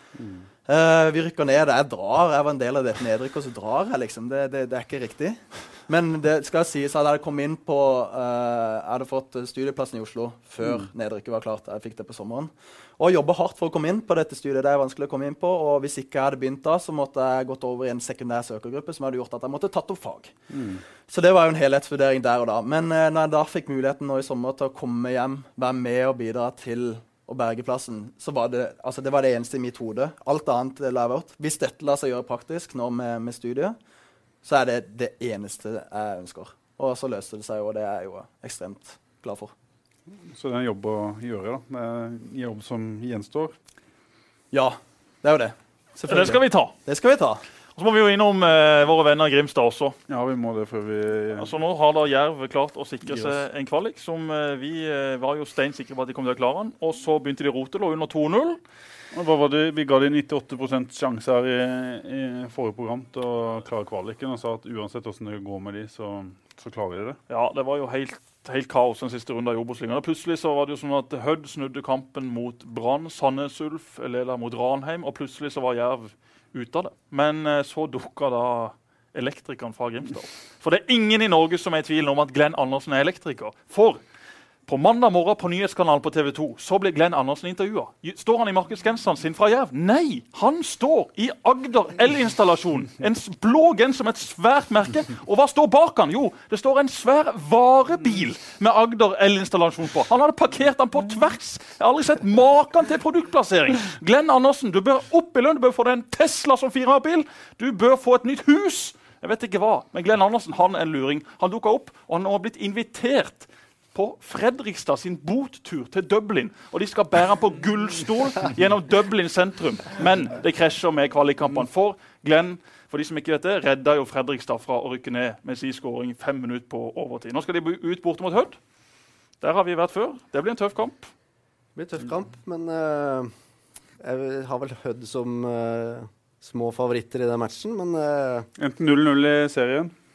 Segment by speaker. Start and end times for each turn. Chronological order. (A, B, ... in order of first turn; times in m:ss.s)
0:00.2-0:00.5 A
0:00.7-0:20.3 B
0:20.5-0:20.8 A
0:21.1-0:33.8 B
0:34.4-0:39.5 B
0:40.2-0:43.5 A
0:44.5-0:47.4 B
0:46.1-0:46.7 C
0:47.7-0:50.0 C
0:50.1-0:51.5 A
0:51.3-0:58.6 C
0:53.1-0:53.4 A
0:59.1-1:07.2 A
1:07.3-1:24.0 C
1:24.6-2:08.6 C
2:09.4-2:11.1 C
2:11.8-2:13.3 D
2:14.0-2:18.5 D
2:18.6-2:19.9 A